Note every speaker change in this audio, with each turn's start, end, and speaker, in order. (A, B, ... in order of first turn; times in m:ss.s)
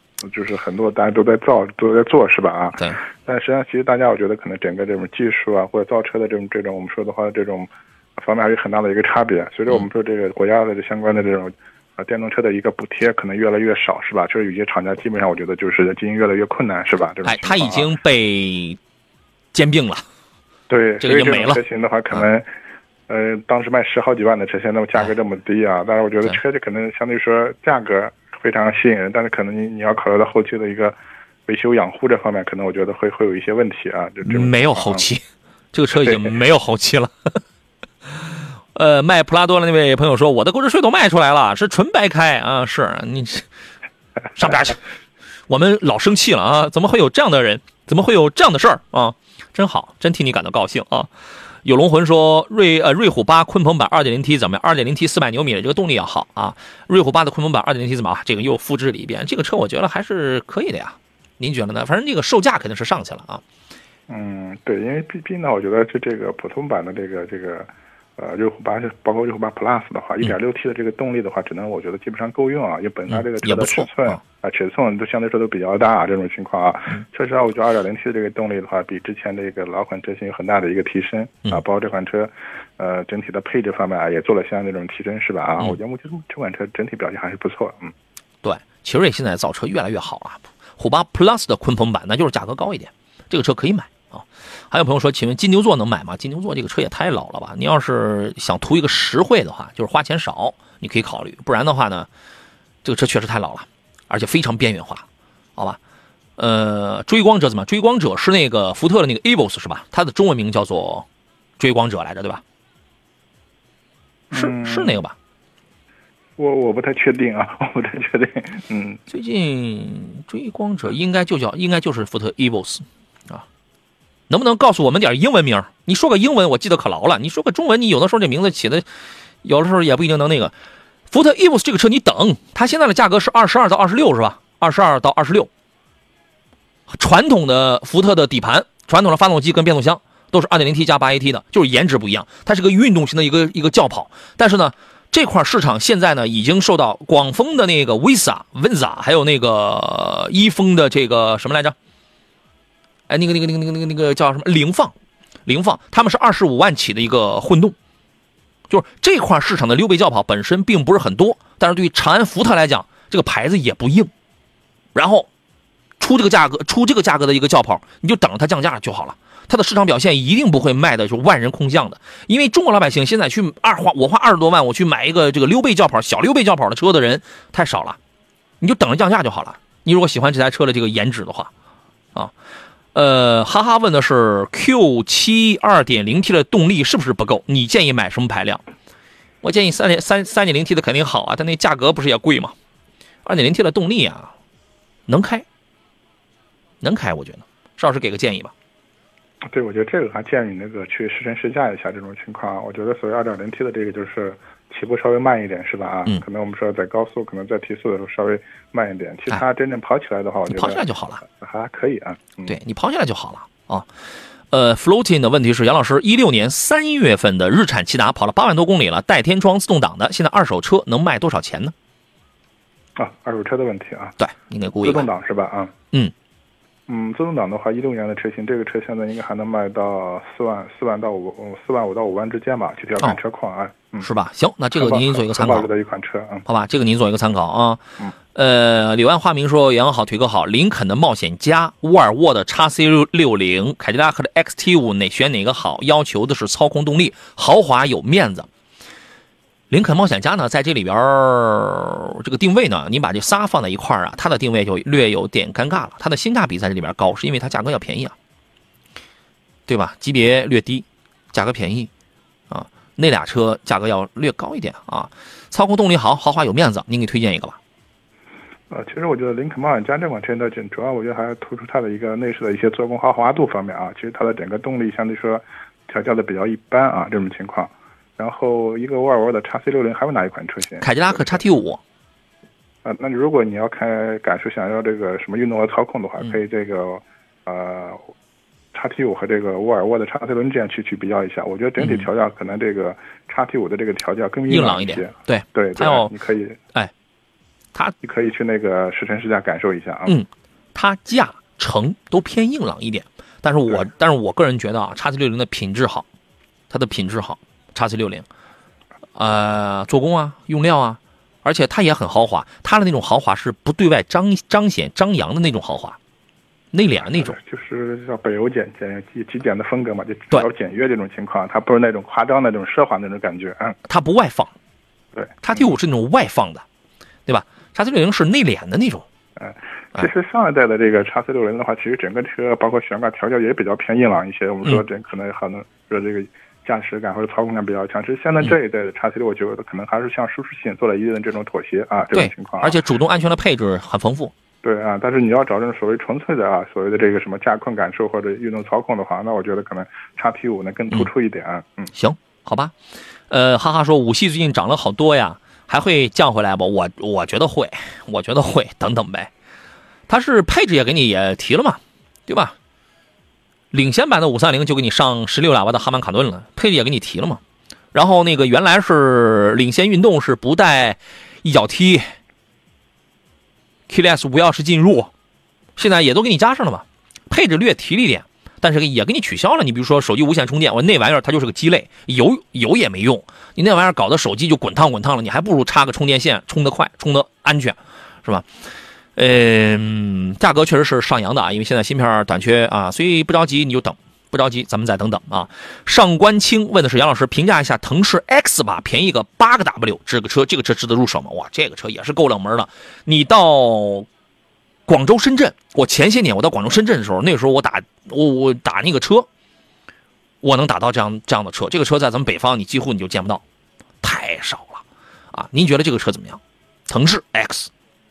0:00.2-0:17.9 A
0:17.2-0:18.8 B
0:19.5-0:20.0 B
0:20.7-0:22.5 A
0:21.0-0:21.6 B
0:23.1-0:31.0 A
0:31.5-0:35.1 A
0:34.3-0:37.4 B
0:36.0-0:36.3 A
0:38.8-0:43.5 B
0:44.4-0:44.8 B
0:45.5-0:51.1 B
0:51.6-1:03.4 B
1:04.1-1:27.9 A
1:13.1-1:14.2 B
1:28.4-1:42.1 B
1:42.8-1:45.0 B
1:46.4-1:51.1 B
1:51.6-1:52.4 B
1:54.3-1:55.0 A
1:54.3-1:55.2 B
1:56.4-1:59.0 A
1:59.1-2:03.4 B
2:04.3-2:08.8 B
2:09.4-2:10.5 B
2:11.1-2:15.5 B
2:16.9-2:31.8 B
2:33.1-2:34.9 B
2:35.5-2:37.8 B
2:38.7-2:44.1 B
2:45.0-2:45.3 B
2:46.0-2:58.0 B
2:58.6-3:01.5 B
3:02.9-3:08.6 B
3:09.4-3:12.5 B
3:13.2-3:14.3 B
3:15.1-3:15.4 B
3:16.8-3:18.5 B
3:19.5-3:32.6 A
3:30.5-3:31.2 B
3:32.5-3:33.9 B
3:34.5-3:41.7 B
3:43.0-3:44.2 A
3:44.2-3:45.1 B
3:44.8-3:45.7 A
3:46.9-3:54.1 A
3:54.0-3:55.7 B
3:54.8-3:56.4 A
3:56.5-3:57.8 B
3:58.4-4:08.5 B
4:09.7-4:18.2 B
4:19.7-4:21.9 B
4:22.5-4:27.6 B
4:28.7-4:41.4 A
4:40.8-4:41.8 B
4:42.8-4:48.1 A
4:48.7-4:56.6 A
4:51.8-4:52.1 B
4:54.5-4:56.1 B
4:58.0-5:00.2 A
5:00.1-5:06.1 B
5:06.7-5:08.3 B
5:09.2-5:16.0 B
5:16.7-5:17.4 B
5:17.0-5:23.8 A
5:23.9-5:24.5 B
5:25.1-5:25.7 A
5:25.4-5:26.6 B
5:27.3-5:29.0 B
5:29.4-5:42.8 A
5:42.1-5:44.3 B
5:44.6-5:51.9 A
5:52.0-5:52.7 B
5:53.3-5:59.3 B
6:00.1-6:02.6 B
6:03.7-6:07.4 B
6:07.9-6:12.1 B
6:13.9-6:15.1 B
6:15.8-6:28.5 B
6:29.2-6:44.1 B
6:44.9-6:49.3 B
6:50.4-6:53.4 B
6:54.0-6:57.7 B